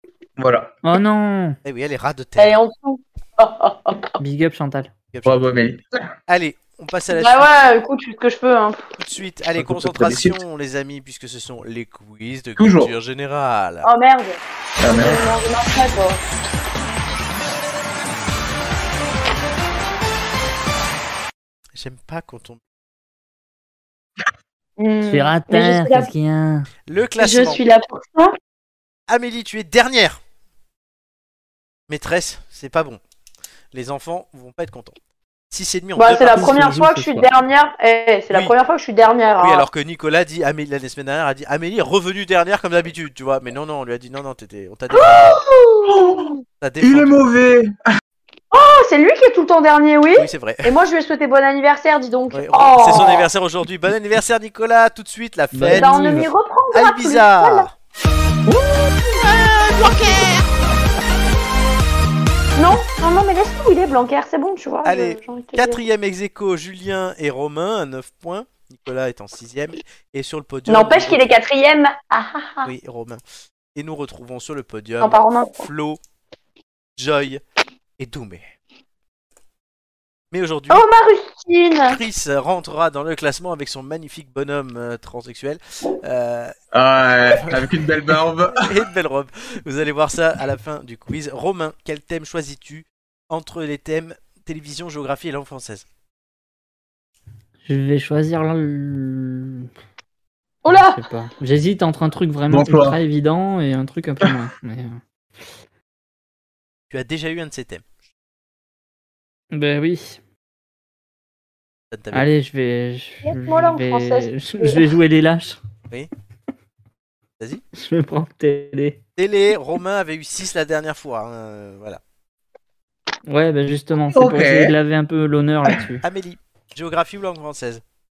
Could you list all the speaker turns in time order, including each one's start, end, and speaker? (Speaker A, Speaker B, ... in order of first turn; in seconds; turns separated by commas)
Speaker A: 0.4-0.7, Speaker B: 0.8-1.6, Speaker C: 1.6-2.6, Speaker D: 2.4-4.1, Speaker B: 4.2-4.9, Speaker C: 5.1-5.6, Speaker A: 5.2-6.0, Speaker C: 6.3-7.5, Speaker D: 7.1-8.8, Speaker C: 9.0-13.9, Speaker A: 9.6-10.4, Speaker A: 12.6-12.9, Speaker D: 13.8-16.2, Speaker A: 14.8-15.2, Speaker C: 21.8-22.6, Speaker D: 24.8-26.1, Speaker B: 25.1-26.7, Speaker C: 26.9-27.6, Speaker D: 27.2-28.3, Speaker C: 29.1-30.2, Speaker C: 31.9-33.0, Speaker C: 33.7-34.9, Speaker C: 35.5-36.6, Speaker D: 36.0-39.7, Speaker B: 36.3-37.3, Speaker C: 38.3-38.5, Speaker C: 39.4-45.4, Speaker D: 44.9-46.4, Speaker A: 46.0-46.2, Speaker C: 46.6-47.3, Speaker A: 46.8-47.7, Speaker D: 48.5-53.3, Speaker C: 50.1-50.7, Speaker C: 52.3-56.2, Speaker B: 55.5-56.3, Speaker D: 55.7-57.6, Speaker C: 56.7-57.7, Speaker A: 58.5-59.2, Speaker C: 59.3-60.4, Speaker D: 62.5-65.8, Speaker C: 64.8-71.4, Speaker D: 70.7-72.7, Speaker C: 72.6-73.2, Speaker C: 73.7-76.0, Speaker D: 75.0-75.7, Speaker C: 77.0-77.4, Speaker C: 78.0-78.5, Speaker C: 80.3-80.8, Speaker D: 80.7-82.0, Speaker C: 81.9-86.5, Speaker A: 86.7-88.7, Speaker C: 87.2-87.7, Speaker C: 88.5-95.8, Speaker B: 97.6-99.7, Speaker D: 100.6-101.0, Speaker B: 100.7-105.0, Speaker A: 102.5-103.0, Speaker C: 106.9-107.8, Speaker B: 109.5-110.2, Speaker C: 111.9-112.3, Speaker B: 112.1-115.6, Speaker D: 113.2-114.8, Speaker B: 117.8-119.0, Speaker C: 119.2-122.0, Speaker B: 123.3-126.0, Speaker A: 124.1-124.7, Speaker C: 126.0-127.8